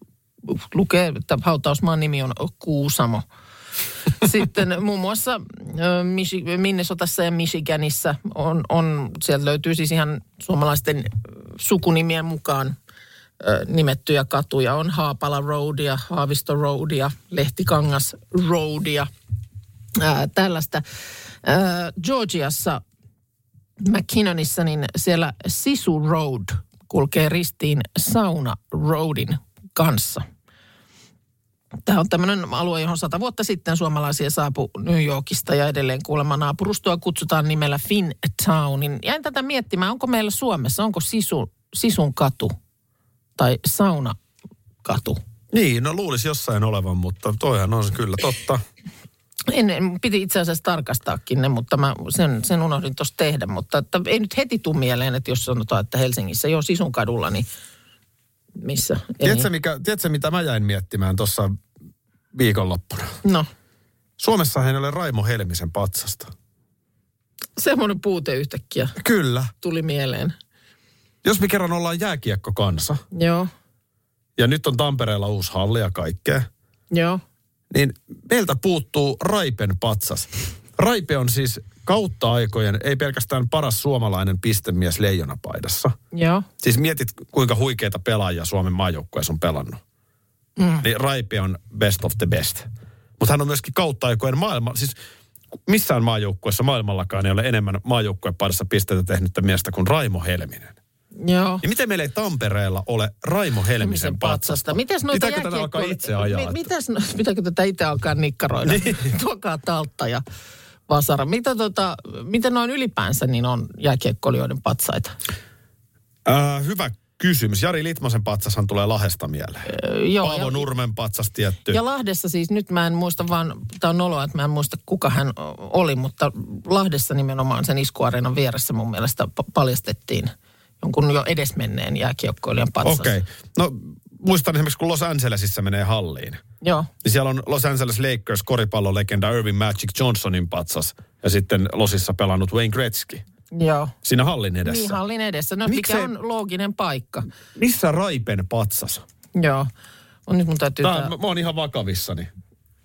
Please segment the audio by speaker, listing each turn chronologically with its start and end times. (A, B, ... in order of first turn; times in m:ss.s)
0:00.4-0:03.2 A
0:04.2-0:12.7 A
0:13.4-0:19.1 A
0:19.9-0:20.8 A
0:21.4-0:22.8 A
0:23.8-0:30.2 A
0:31.8-0:42.5 A
0:43.4-0:44.2 A
0:44.8-0:45.2 A
0:45.5-0:48.6 B
0:49.5-0:57.4 A
0:58.6-0:59.5 A
0:59.2-1:01.6 B
1:02.3-1:03.2 B
1:04.2-1:06.3 B
1:07.6-1:09.0 A
1:09.0-1:09.5 B
1:09.6-1:10.3 A
1:11.2-1:13.0 B
1:13.1-1:13.5 A
1:14.4-1:16.5 B
1:16.9-1:17.2 A
1:17.7-1:25.9 B
1:26.1-1:26.5 A
1:26.6-1:29.8 B
1:30.6-1:30.8 A
1:30.8-1:32.7 B
1:33.2-1:35.0 B
1:35.6-1:40.8 B
1:41.2-1:41.6 A
1:41.6-1:46.7 B
1:43.8-1:50.2 A
1:48.6-1:49.0 B
1:50.9-1:55.2 A
1:56.2-2:01.8 B
1:59.7-2:00.6 A
2:01.7-2:13.1 A
2:12.8-2:16.4 B
2:16.6-2:16.9 A
2:17.0-2:23.2 B
2:23.5-2:23.9 A
2:24.0-2:25.0 B
2:24.6-2:27.3 A
2:25.6-2:26.1 B
2:27.6-2:29.0 B
2:29.3-2:29.7 A
2:30.3-2:31.1 A
2:30.8-2:32.3 B